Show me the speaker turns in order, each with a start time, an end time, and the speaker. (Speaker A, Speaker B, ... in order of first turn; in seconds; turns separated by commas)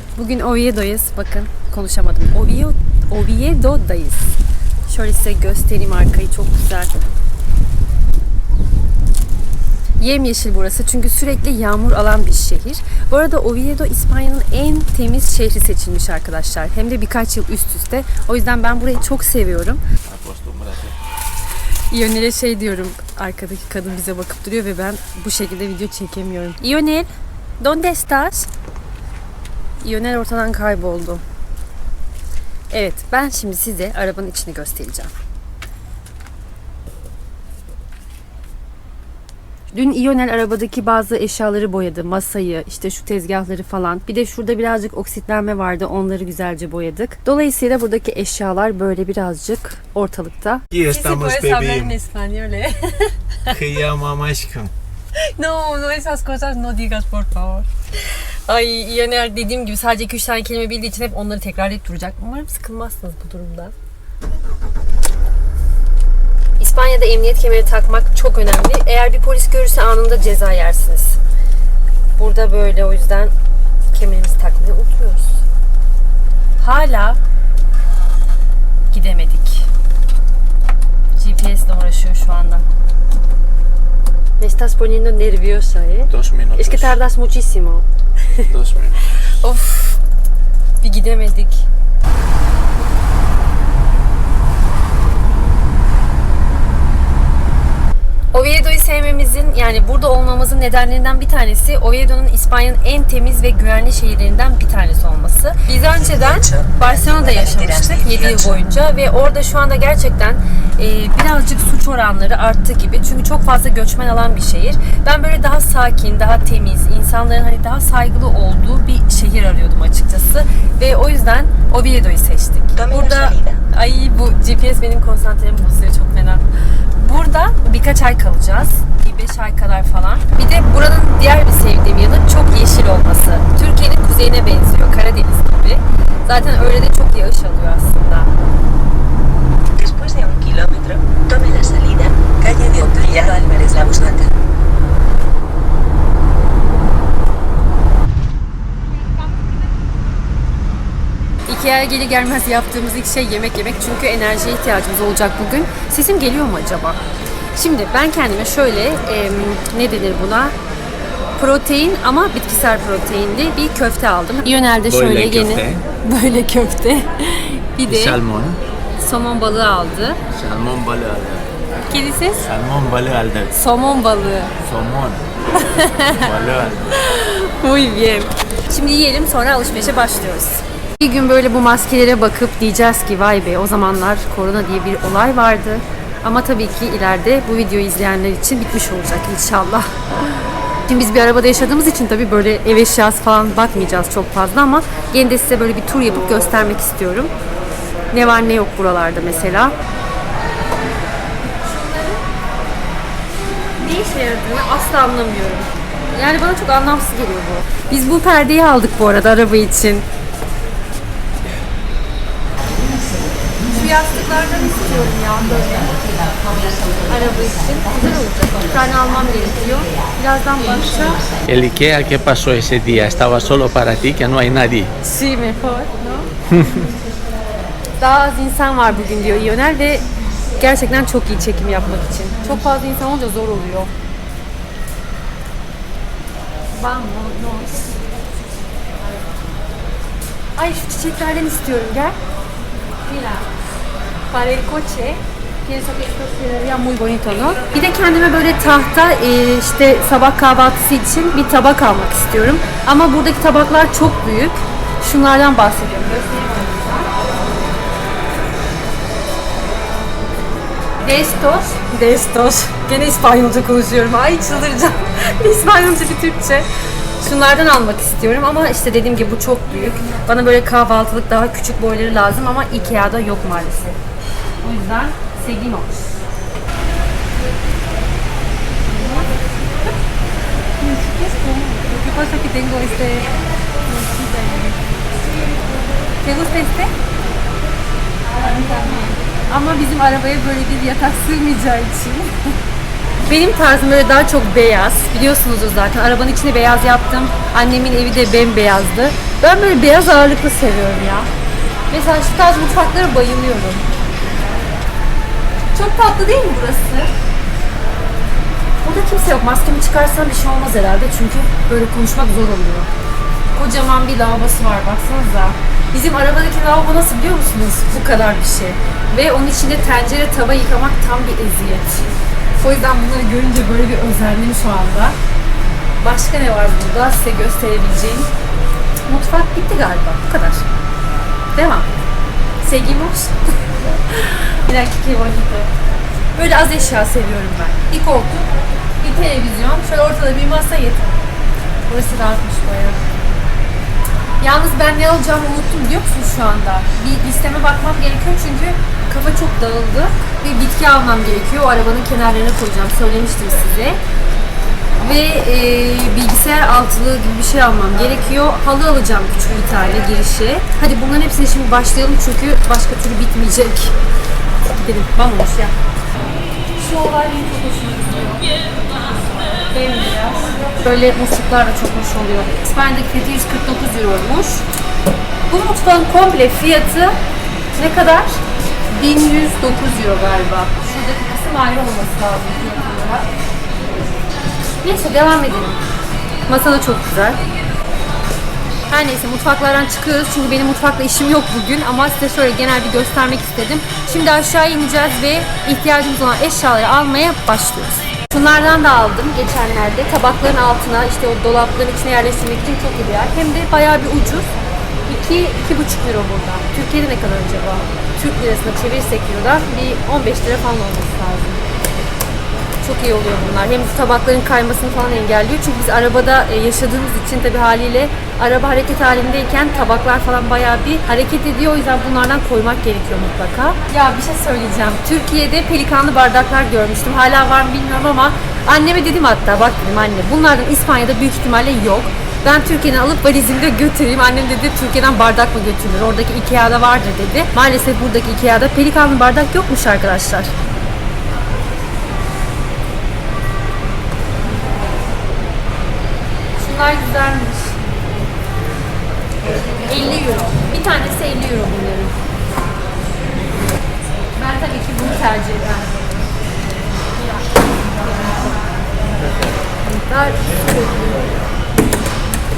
Speaker A: 0.2-4.3, Speaker A: 4.9-6.9, Speaker A: 10.0-19.8, Speaker B: 20.0-20.9, Speaker A: 21.9-28.5, Speaker A: 29.8-31.2, Speaker A: 32.7-35.1, Speaker A: 39.7-53.5, Speaker B: 50.7-51.9, Speaker B: 53.5-54.7, Speaker A: 55.2-57.7, Speaker A: 58.5-63.7, Speaker A: 66.6-71.2, Speaker A: 72.2-73.3, Speaker A: 73.9-75.4, Speaker A: 76.6-77.2, Speaker A: 78.9-79.7, Speaker A: 81.2-82.6, Speaker A: 84.4-88.5, Speaker B: 86.1-87.0, Speaker B: 88.5-89.0, Speaker A: 89.4-90.0, Speaker A: 90.8-91.6, Speaker A: 98.3-126.4, Speaker C: 106.0-108.6, Speaker C: 122.8-123.6, Speaker A: 127.0-138.3, Speaker C: 139.7-144.3, Speaker A: 151.5-157.0, Speaker A: 157.6-160.5, Speaker A: 161.4-168.2, Speaker B: 164.9-165.8, Speaker B: 167.9-168.6, Speaker A: 169.0-170.2, Speaker B: 170.3-171.5, Speaker A: 171.9-172.5, Speaker B: 172.4-173.5, Speaker A: 173.6-174.5, Speaker B: 174.6-175.2, Speaker A: 175.6-176.3, Speaker B: 176.2-176.9, Speaker A: 176.9-190.3, Speaker A: 190.9-197.3, Speaker A: 198.1-199.8, Speaker A: 201.6-202.2, Speaker A: 203.8-210.1, Speaker A: 213.6-216.1, Speaker A: 217.0-221.3, Speaker B: 221.4-224.9, Speaker A: 225.0-226.3, Speaker B: 226.5-226.9, Speaker A: 228.0-230.1, Speaker A: 230.6-233.9, Speaker A: 236.7-237.9, Speaker A: 240.6-242.2, Speaker A: 243.0-243.5, Speaker A: 244.3-257.1, Speaker A: 261.0-266.7, Speaker A: 267.2-274.0, Speaker A: 274.6-276.2, Speaker A: 278.9-279.3, Speaker A: 280.8-283.3, Speaker A: 283.8-284.8, Speaker A: 286.2-286.9, Speaker A: 288.4-292.5, Speaker A: 293.2-301.3, Speaker A: 301.9-303.9, Speaker A: 305.7-307.1, Speaker A: 308.8-312.9, Speaker A: 313.5-322.1, Speaker A: 322.6-325.2, Speaker A: 326.0-328.3, Speaker A: 329.1-330.6, Speaker A: 331.5-331.9, Speaker A: 332.6-333.6, Speaker A: 334.1-335.7, Speaker A: 336.4-338.5, Speaker A: 339.0-341.2, Speaker A: 341.9-343.0, Speaker A: 344.4-354.0, Speaker A: 355.0-363.9, Speaker A: 364.7-365.7, Speaker A: 366.8-368.4, Speaker A: 369.7-374.6, Speaker A: 375.5-377.1, Speaker A: 377.8-383.3, Speaker A: 384.8-385.8, Speaker A: 386.5-387.4, Speaker A: 388.9-404.5, Speaker A: 405.1-411.6, Speaker A: 412.8-440.5, Speaker A: 446.6-447.8, Speaker A: 449.8-452.1, Speaker A: 454.3-455.9, Speaker A: 457.2-457.4, Speaker A: 458.1-458.4, Speaker A: 459.9-461.2